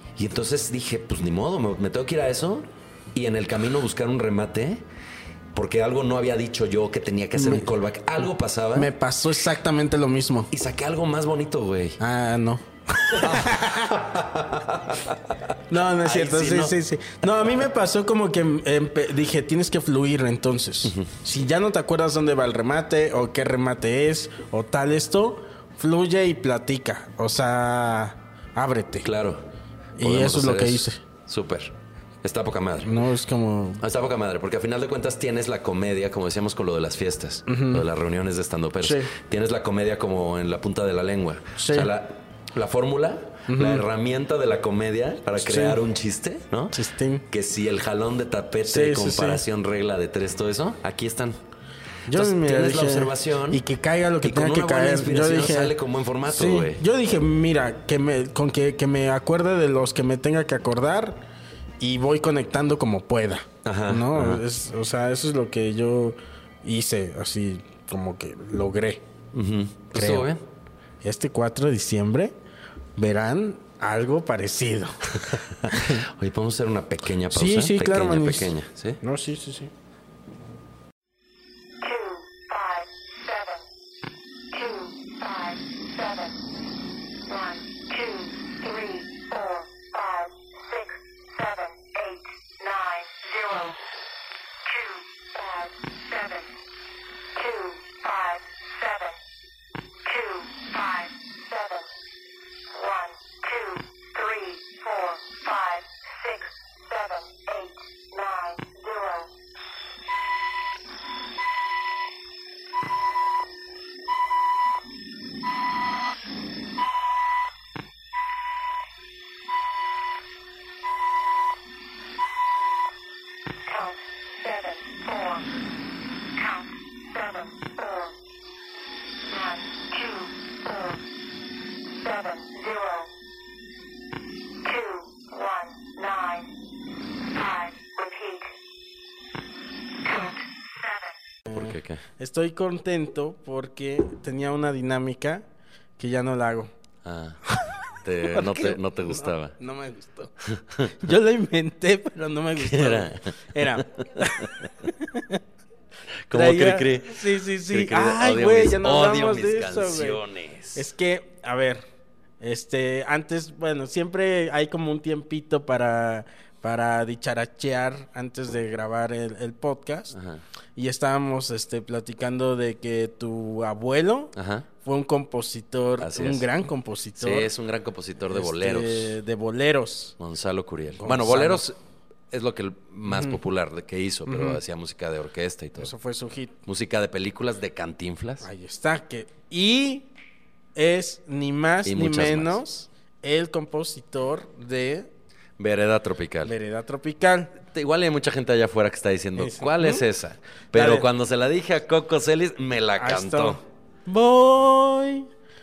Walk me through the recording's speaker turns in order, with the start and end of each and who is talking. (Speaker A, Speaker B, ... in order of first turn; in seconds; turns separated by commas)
Speaker A: 0.1-4.8, Speaker A: 5.5-8.9, Speaker B: 7.3-7.7, Speaker B: 8.7-10.5, Speaker A: 10.5-12.0, Speaker B: 12.0-14.0, Speaker A: 13.1-16.8, Speaker B: 15.7-29.1, Speaker A: 20.8-21.1, Speaker A: 29.0-29.4, Speaker B: 30.0-31.0, Speaker A: 30.0-33.0, Speaker B: 32.8-33.8, Speaker A: 33.8-51.4, Speaker B: 37.5-37.8, Speaker B: 38.8-39.1, Speaker B: 41.5-41.9, Speaker B: 43.5-43.8, Speaker B: 45.4-45.8, Speaker B: 46.7-47.2, Speaker B: 48.7-49.4, Speaker B: 52.1-55.7, Speaker A: 52.1-53.6, Speaker A: 54.2-56.8, Speaker B: 56.3-61.2, Speaker B: 61.8-69.0, Speaker A: 63.6-64.4, Speaker A: 69.3-70.4, Speaker B: 69.9-70.3, Speaker B: 71.0-72.3, Speaker B: 73.0-76.0, Speaker A: 75.3-79.0, Speaker B: 77.3-79.7, Speaker C: 81.8-83.6, Speaker C: 84.5-86.3, Speaker C: 87.3-93.8, Speaker C: 94.6-96.5, Speaker C: 97.3-99.2, Speaker C: 100.0-101.9, Speaker C: 102.7-109.3, Speaker C: 123.7-125.5, Speaker C: 126.3-128.1, Speaker C: 129.3-131.0, Speaker C: 131.9-133.1, Speaker C: 134.6-136.5, Speaker C: 137.3-138.5, Speaker C: 140.0-141.1, Speaker B: 141.5-145.4, Speaker A: 141.5-142.0, Speaker B: 146.0-146.7, Speaker A: 147.0-147.4, Speaker B: 147.5-150.3, Speaker A: 148.0-149.5, Speaker A: 150.5-150.9, Speaker B: 150.9-155.4, Speaker A: 152.6-154.7, Speaker A: 156.3-160.9, Speaker B: 156.3-160.2, Speaker B: 160.7-161.8, Speaker B: 162.4-170.1, Speaker A: 170.1-170.4, Speaker B: 170.8-177.5, Speaker A: 174.3-174.7, Speaker A: 176.0-176.5, Speaker A: 177.2-179.1, Speaker B: 178.2-180.2, Speaker A: 180.2-181.8, Speaker B: 181.0-181.6, Speaker A: 182.3-185.9, Speaker B: 183.1-183.4, Speaker B: 184.3-184.6, Speaker B: 185.8-186.6, Speaker A: 186.7-188.5, Speaker B: 188.4-190.1, Speaker B: 190.8-195.1, Speaker A: 191.8-192.6, Speaker A: 195.6-196.5, Speaker B: 196.4-197.5, Speaker A: 197.6-203.6, Speaker B: 199.4-200.0, Speaker B: 200.7-201.1, Speaker B: 203.0-205.3